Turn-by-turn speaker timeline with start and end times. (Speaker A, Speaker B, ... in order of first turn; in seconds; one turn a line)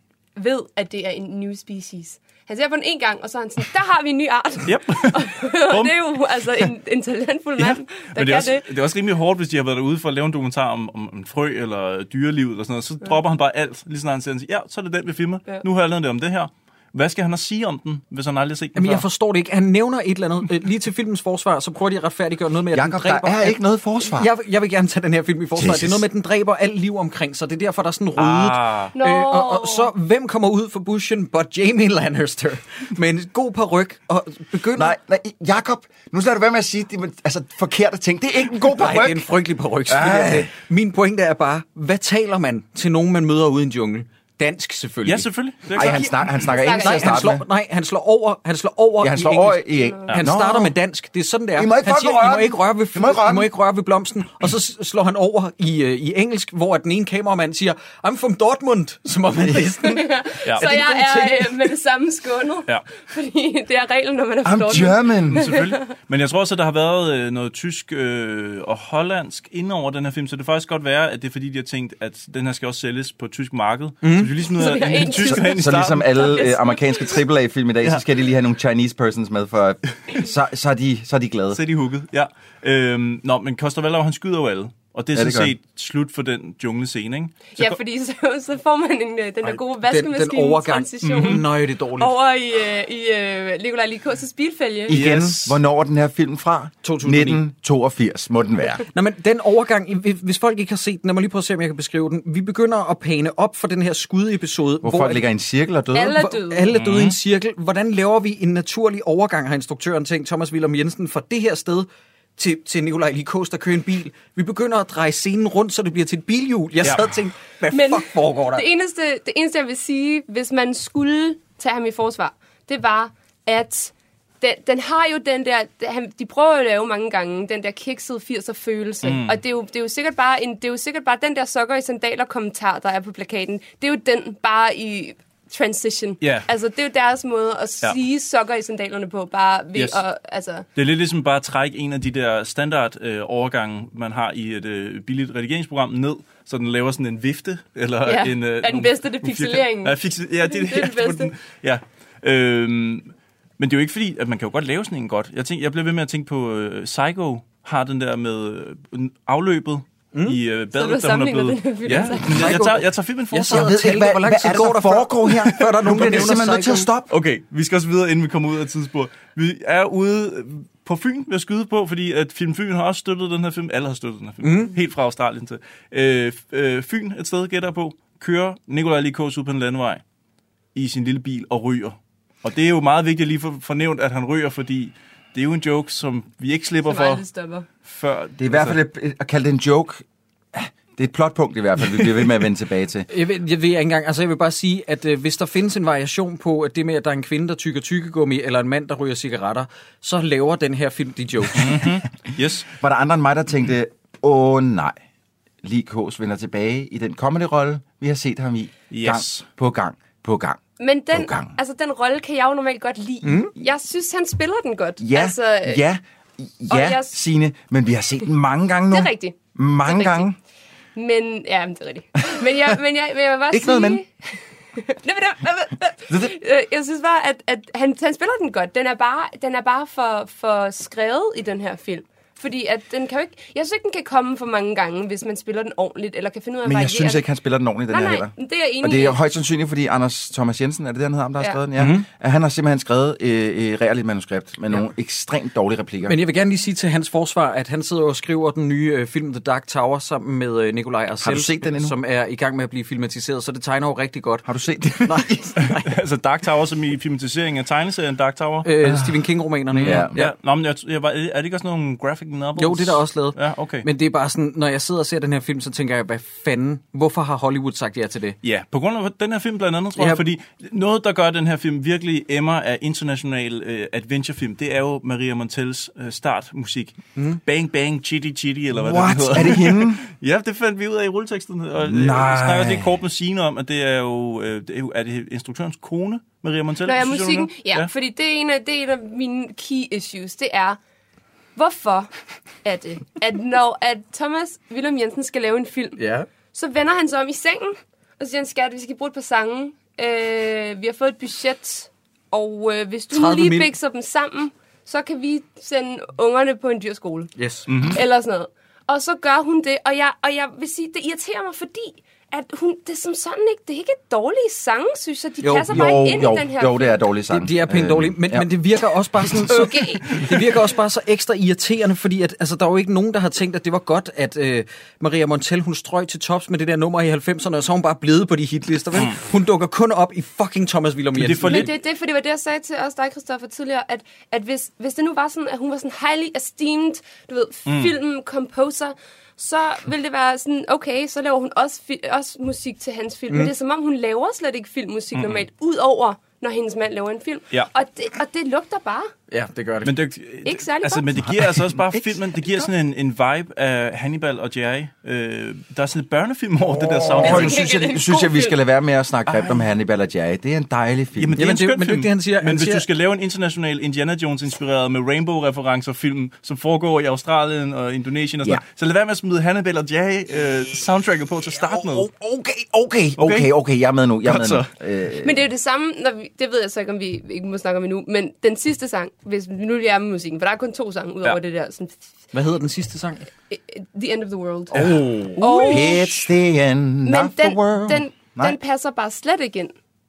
Speaker A: 0.3-8.6
Speaker B: 4.6-6.0
Speaker B: 7.6-19.0
Speaker C: 18.7-34.9
Speaker D: 22.7-24.3
Speaker D: 25.6-26.0
Speaker B: 28.2-28.9
Speaker A: 28.9-29.9
Speaker D: 34.8-39.3
Speaker C: 38.7-46.1
Speaker D: 39.9-40.5
Speaker B: 45.0-46.1
Speaker D: 45.7-47.4
Speaker A: 46.5-47.3
Speaker C: 46.6-60.0
Speaker D: 49.0-50.7
Speaker D: 51.5-53.5
Speaker A: 59.8-65.8
Speaker C: 60.6-61.4
Speaker D: 64.4-65.5
Speaker B: 64.7-76.3
Speaker C: 74.0-74.3
Speaker A: 74.5-77.2
Speaker D: 75.2-81.6
Speaker B: 81.5-87.8
Speaker D: 85.1-85.5
Speaker A: 87.6-94.9
Speaker C: 89.8-92.1
Speaker B: 91.0-91.4
Speaker D: 94.9-98.8
Speaker B: 94.9-95.6
Speaker C: 96.8-97.4
Speaker C: 98.9-105.3
Speaker D: 104.8-106.2
Speaker A: 105.9-106.7
Speaker C: 106.1-118.6
Speaker B: 106.7-107.2
Speaker A: 117.7-140.6
Speaker B: 129.0-129.4
Speaker B: 136.2-136.5
Speaker B: 139.7-140.0
Speaker B: 140.8-163.7
Speaker A: 148.0-151.3
Speaker C: 160.1-160.4
Speaker A: 160.7-162.7
Speaker C: 162.2-166.9
Speaker D: 163.4-167.1
Speaker B: 167.1-180.0
Speaker C: 174.4-174.7
Speaker B: 180.7-187.2
Speaker A: 186.8-187.7
Speaker B: 187.8-188.8
Speaker D: 188.4-193.1
Speaker C: 193.1-201.8
Speaker B: 201.5-202.7
Speaker D: 202.7-205.0
Speaker D: 205.6-210.6
Speaker B: 208.9-209.4
Speaker A: 210.8-215.8
Speaker D: 211.1-211.5
Speaker C: 213.2-213.5
Speaker D: 215.0-220.3
Speaker A: 216.7-217.2
Speaker A: 218.9-220.3
Speaker A: 220.9-224.1
Speaker D: 223.5-224.0
Speaker A: 224.7-237.2
Speaker D: 226.1-226.3
Speaker D: 236.6-246.2
Speaker A: 237.9-239.2
Speaker C: 241.8-242.1
Speaker C: 246.0-254.4
Speaker D: 251.2-251.9
Speaker D: 254.4-255.6
Speaker C: 255.0-255.9
Speaker B: 255.8-258.7
Speaker C: 258.6-260.3
Speaker D: 258.8-259.2
Speaker D: 259.7-260.2
Speaker B: 259.8-263.9
Speaker C: 262.6-268.4
Speaker B: 268.4-287.9
Speaker C: 270.0-270.2
Speaker D: 278.7-280.0
Speaker D: 281.8-282.9
Speaker A: 286.8-290.8
Speaker A: 291.5-292.1
Speaker A: 292.6-296.0
Speaker C: 296.0-296.3
Speaker A: 296.5-307.3
Speaker C: 303.1-303.7
Speaker C: 307.4-307.7
Speaker B: 307.7-308.0
Speaker A: 307.9-317.0
Speaker C: 315.4-315.9
Speaker D: 315.6-318.5
Speaker C: 317.3-331.7
Speaker A: 319.5-320.3
Speaker B: 331.1-331.7
Speaker A: 331.4-349.1
Speaker B: 337.7-337.9
Speaker B: 345.1-345.4
Speaker C: 349.3-349.9
Speaker B: 349.8-357.6
Speaker A: 350.4-351.1
Speaker D: 356.8-361.4
Speaker A: 357.2-358.6
Speaker B: 361.1-372.1
Speaker C: 361.4-362.9
Speaker D: 371.5-375.4
Speaker B: 373.2-373.5
Speaker B: 374.2-374.7
Speaker A: 375.2-381.9
Speaker C: 382.3-383.3
Speaker A: 383.5-386.3
Speaker C: 384.7-385.9
Speaker D: 385.6-388.6
Speaker A: 387.0-389.7